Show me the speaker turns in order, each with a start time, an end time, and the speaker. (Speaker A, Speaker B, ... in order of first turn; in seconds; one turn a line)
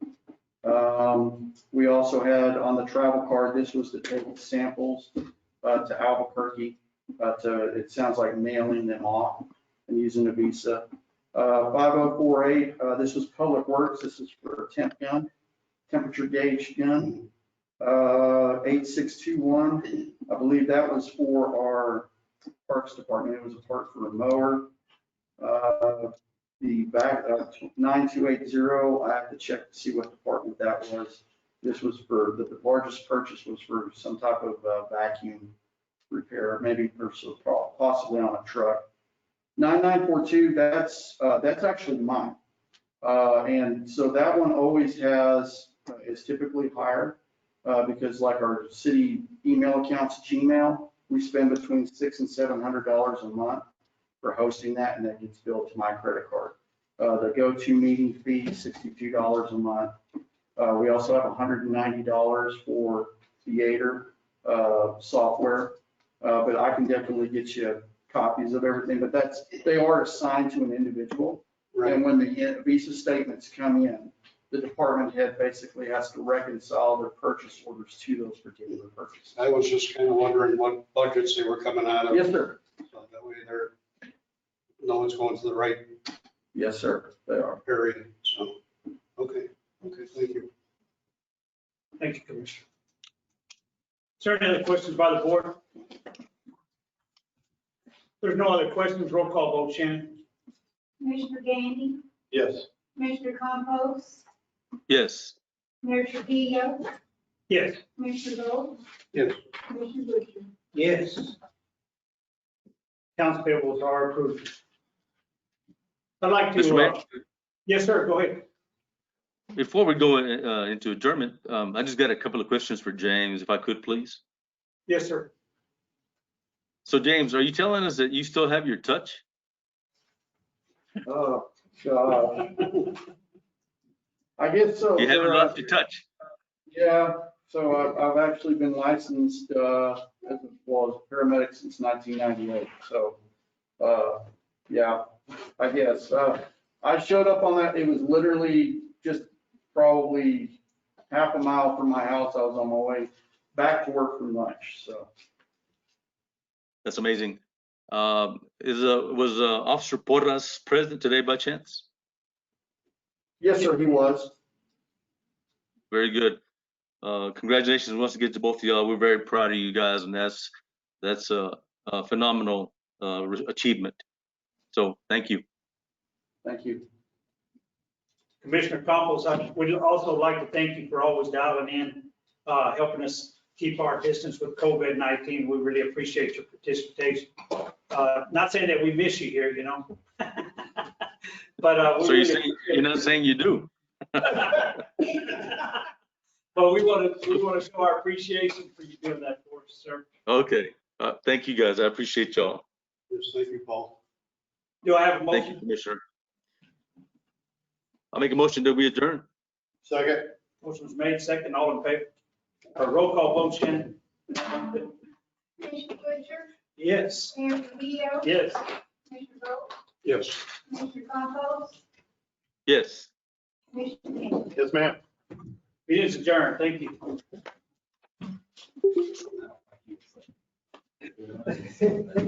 Speaker A: 0.6-15.3
Speaker A: 15.9-17.2
Speaker A: 17.8-22.1
Speaker A: 22.7-24.7
Speaker A: 25.4-35.5
Speaker A: 36.1-38.9
Speaker A: 39.6-42.4
Speaker A: 43.0-53.6
Speaker A: 54.2-60.0
Speaker A: 60.5-79.3
Speaker B: 71.8-72.0
Speaker B: 79.3-82.4
Speaker A: 82.1-82.6
Speaker B: 82.9-83.7
Speaker B: 84.8-85.9
Speaker A: 86.5-87.6
Speaker B: 87.6-88.6
Speaker B: 89.2-90.5
Speaker C: 92.0-92.6
Speaker C: 94.2-95.6
Speaker C: 98.2-100.2
Speaker D: 101.0-102.0
Speaker B: 102.3-102.6
Speaker D: 102.9-104.2
Speaker E: 104.9-105.4
Speaker D: 105.8-106.8
Speaker C: 107.5-107.8
Speaker D: 108.0-108.8
Speaker B: 109.1-109.4
Speaker D: 109.6-110.5
Speaker C: 110.7-111.3
Speaker C: 113.2-114.6
Speaker C: 116.2-117.0
Speaker E: 116.5-117.0
Speaker C: 117.7-118.5
Speaker E: 119.5-124.2
Speaker C: 124.9-125.3
Speaker E: 126.8-129.2
Speaker A: 131.1-132.9
Speaker A: 134.4-135.7
Speaker E: 135.0-136.0
Speaker A: 136.7-143.2
Speaker A: 143.8-145.1
Speaker A: 145.6-150.6
Speaker A: 151.1-155.1
Speaker E: 156.8-157.4
Speaker E: 157.9-161.9
Speaker A: 163.4-164.3
Speaker E: 165.9-166.4
Speaker E: 167.0-174.0
Speaker E: 174.7-175.4
Speaker A: 176.4-176.8
Speaker C: 178.4-190.9
Speaker C: 191.6-192.9
Speaker E: 192.0-194.7
Speaker C: 194.3-195.8
Speaker C: 196.6-200.1
Speaker E: 200.3-202.6
Speaker B: 203.1-204.0
Speaker C: 204.8-205.6
Speaker E: 205.3-206.0
Speaker E: 208.1-209.2
Speaker B: 209.8-210.3
Speaker C: 210.6-212.1
Speaker C: 212.8-214.8
Speaker D: 215.6-216.5
Speaker C: 216.8-217.3
Speaker D: 217.3-218.4
Speaker C: 218.2-218.6
Speaker D: 219.1-219.7
Speaker B: 220.0-220.4
Speaker D: 220.7-221.8
Speaker E: 222.7-223.1
Speaker D: 223.7-224.6
Speaker B: 224.6-224.9
Speaker C: 225.9-227.1